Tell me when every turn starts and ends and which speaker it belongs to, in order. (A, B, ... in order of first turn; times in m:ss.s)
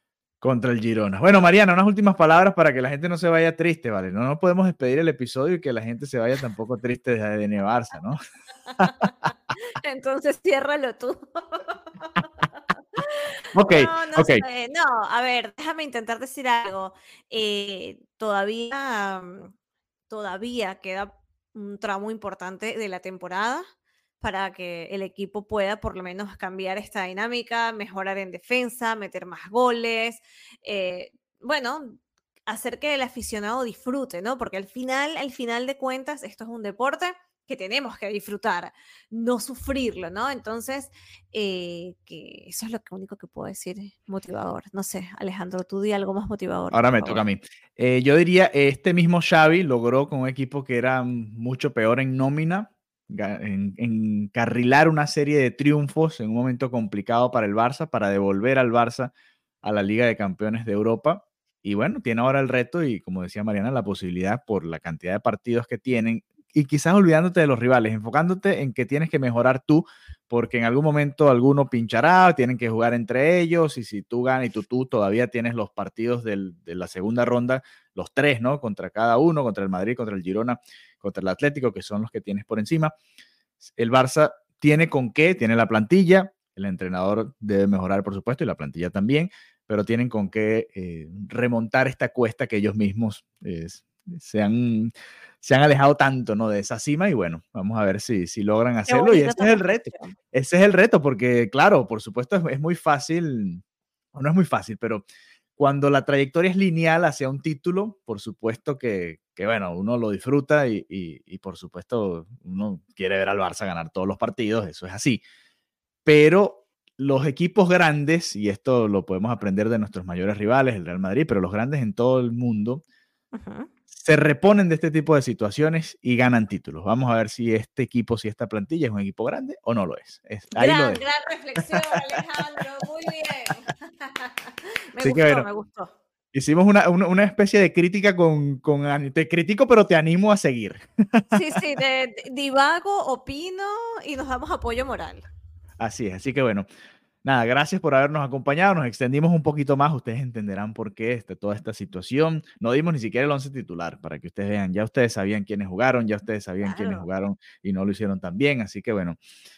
0:00.4-0:08.2 A
0:08.7-0:12.2 B
0:08.8-0:09.1 A
0:13.0-0:19.5 B
0:13.5-0:14.4 A
0:20.1-0:23.6 B
0:24.2-0:47.2 B
0:46.7-0:59.1 A
0:59.6-1:22.9 A
1:23.7-1:43.6 A
1:38.9-1:40.1 B
1:44.1-1:45.0 A
1:45.6-1:55.2 A
1:56.0-2:02.8 A
2:03.3-2:03.7 B
2:03.9-2:11.0 A
2:10.5-2:15.9 B
2:15.0-2:15.5 A
2:16.3-2:21.6 A
2:21.3-2:25.3 B
2:25.8-2:26.7 A
2:27.2-2:39.2 A
2:36.6-2:37.1 B